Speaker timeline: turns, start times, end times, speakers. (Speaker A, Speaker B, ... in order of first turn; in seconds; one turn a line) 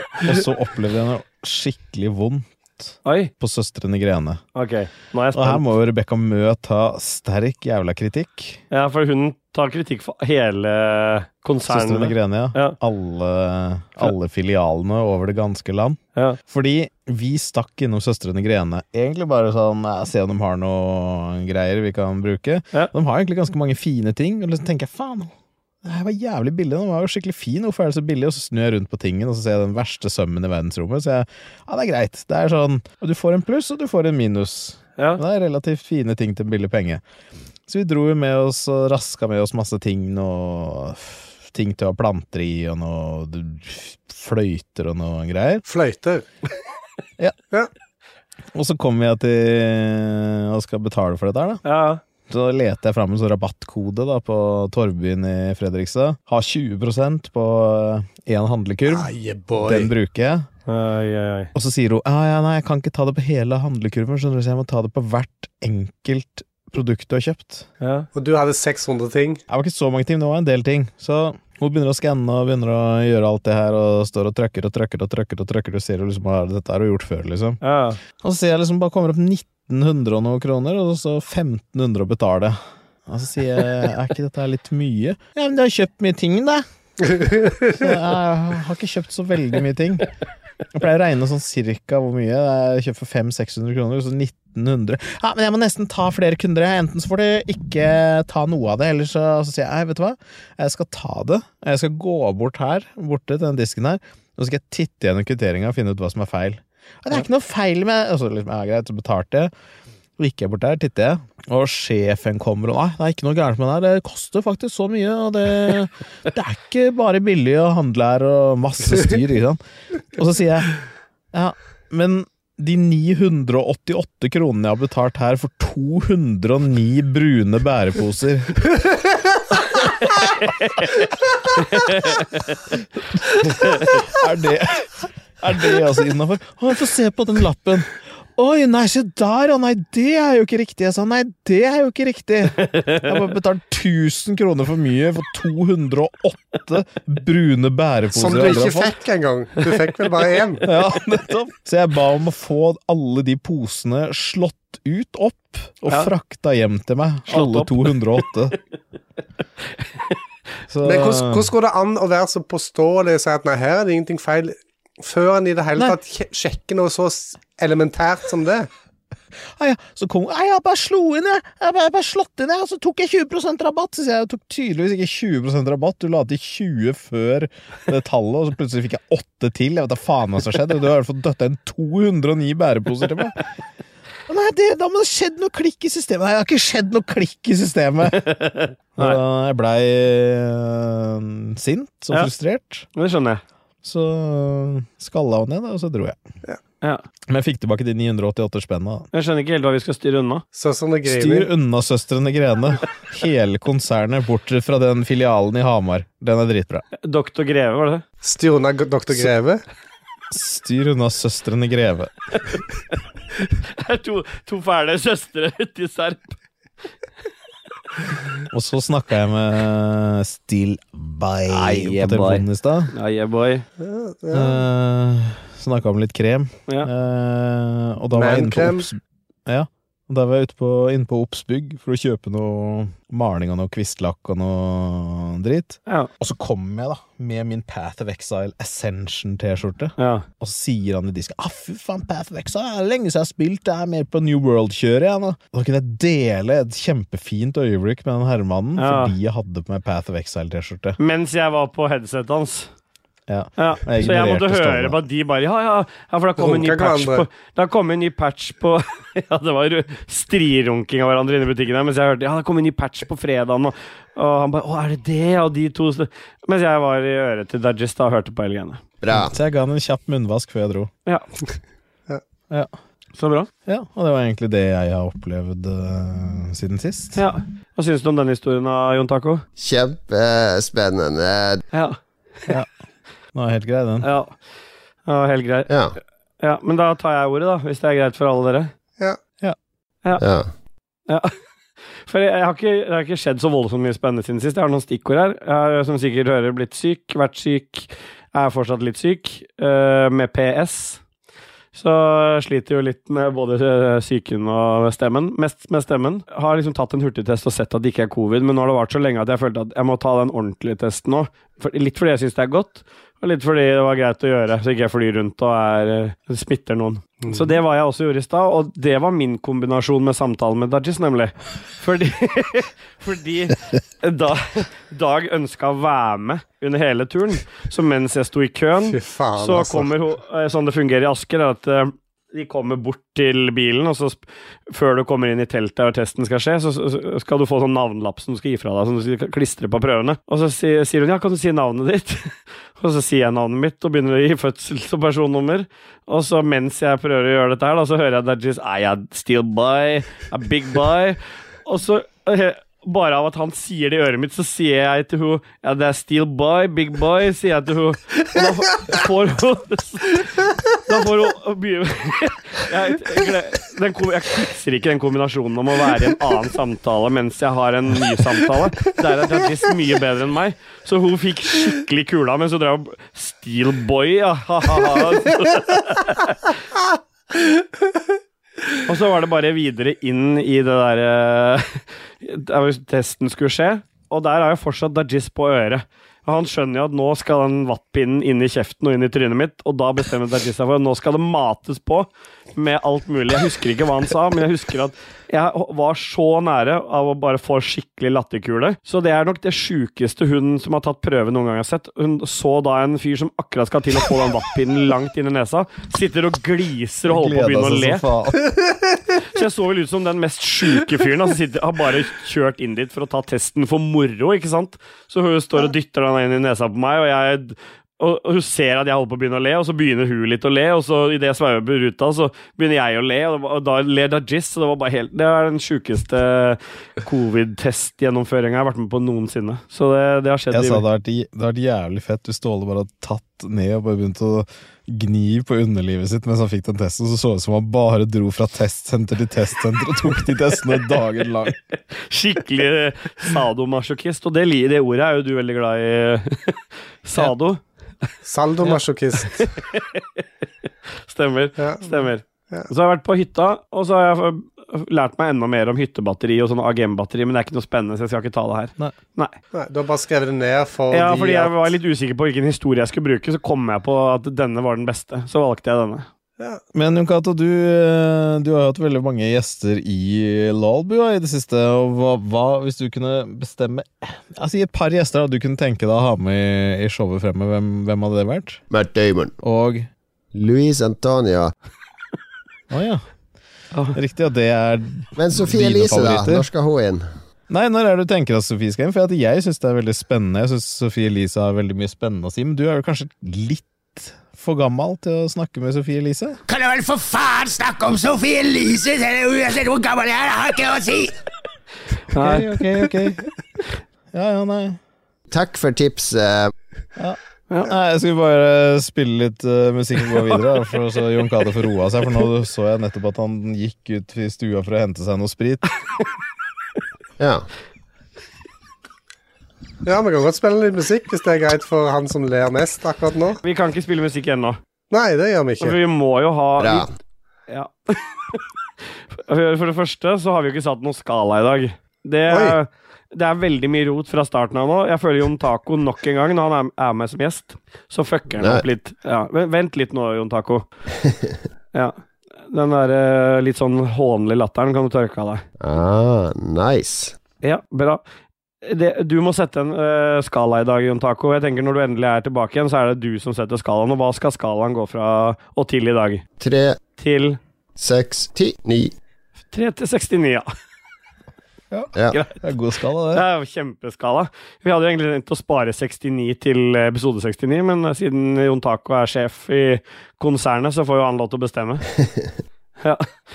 Speaker A: 0.2-4.4
Speaker B: 3.0-3.3
Speaker B: 4.5-5.7
Speaker A: 5.3-8.6
Speaker B: 8.7-12.8
Speaker A: 11.7-25.3
Speaker A: 25.8-37.0
Speaker A: 37.7-45.6
Speaker C: 45.7-46.2
Speaker A: 48.5-51.6
Speaker B: 51.6-52.0
Speaker A: 52.3-60.5
Speaker C: 58.9-59.9
Speaker B: 60.7-61.5
Speaker A: 61.5-67.7
Speaker B: 67.8-68.1
Speaker C: 68.1-69.4
Speaker A: 69.5-77.6
Speaker B: 77.6-78.0
Speaker A: 78.2-86.7
Speaker C: 87.1-87.7
Speaker A: 87.7-90.1
Speaker A: 90.7-109.5
Speaker A: 110.2-119.6
Speaker A: 120.1-120.8
Speaker A: 121.3-128.7
Speaker B: 130.4-130.9
Speaker B: 131.6-132.5
Speaker A: 133.3-149.0
Speaker B: 133.5-134.0
Speaker B: 142.6-143.1
Speaker C: 148.1-150.7
Speaker A: 150.6-158.6
Speaker B: 157.3-158.0
Speaker A: 160.7-161.5
Speaker C: 160.8-168.7
Speaker A: 169.6-183.4
Speaker A: 184.3-188.3
Speaker B: 188.2-189.2
Speaker A: 189.0-192.9
Speaker B: 192.9-193.4
Speaker A: 193.8-196.2
Speaker A: 197.3-199.1
Speaker B: 199.1-200.4
Speaker C: 200.5-201.5
Speaker A: 201.1-206.8
Speaker B: 207.0-208.0
Speaker C: 208.2-209.6
Speaker A: 210.3-212.1
Speaker B: 213.6-216.4
Speaker A: 218.5-222.9
Speaker B: 221.5-223.7
Speaker C: 223.8-224.6
Speaker A: 224.3-251.0
Speaker C: 228.1-228.9
Speaker B: 240.0-240.3
Speaker B: 248.8-249.1
Speaker B: 251.0-252.7
Speaker A: 253.3-255.0
Speaker B: 253.6-268.8
Speaker C: 256.4-257.3
Speaker D: 269.0-269.4
Speaker A: 269.1-270.9
Speaker B: 273.2-273.5
Speaker A: 273.7-277.2
Speaker B: 277.2-279.4
Speaker D: 279.6-281.6
Speaker B: 281.7-282.0
Speaker A: 283.3-284.1
Speaker B: 284.0-284.4
Speaker B: 285.1-285.7
Speaker D: 285.7-286.0
Speaker B: 286.4-288.7
Speaker D: 290.2-290.5
Speaker B: 291.1-291.3
Speaker B: 292.1-301.0
Speaker B: 301.7-376.4
Speaker C: 317.2-317.5
Speaker C: 328.9-329.9
Speaker B: 378.9-408.0
Speaker A: 407.1-408.5
Speaker B: 409.3-430.8
Speaker A: 430.5-441.6
Speaker B: 441.9-447.6
Speaker C: 448.2-449.5
Speaker B: 449.4-450.2
Speaker B: 451.1-459.3
Speaker C: 451.6-452.7
Speaker C: 459.5-461.7
Speaker B: 460.9-466.1
Speaker A: 466.7-478.6
Speaker D: 478.7-479.4
Speaker A: 479.4-479.9
Speaker D: 480.3-481.5
Speaker A: 482.7-483.0
Speaker A: 483.9-486.5
Speaker D: 485.2-487.1
Speaker A: 487.5-496.4
Speaker E: 496.5-501.1
Speaker B: 502.1-502.5
Speaker A: 502.1-503.3
Speaker A: 504.1-504.8
Speaker D: 505.3-506.5
Speaker A: 507.0-515.6
Speaker D: 517.2-517.5
Speaker C: 519.9-523.4
Speaker B: 523.4-524.6
Speaker C: 524.9-525.8
Speaker B: 525.6-526.9
Speaker D: 526.6-526.9
Speaker B: 527.5-528.4
Speaker B: 529.1-540.7
Speaker C: 532.3-532.6
Speaker B: 542.5-545.4
Speaker D: 545.6-547.1
Speaker B: 547.4-548.0
Speaker B: 548.6-556.2
Speaker D: 556.4-556.8
Speaker B: 557.0-557.4
Speaker D: 557.8-558.9
Speaker B: 559.5-560.5
Speaker A: 561.7-563.2
Speaker B: 562.1-562.4
Speaker B: 563.1-571.8
Speaker B: 572.8-573.1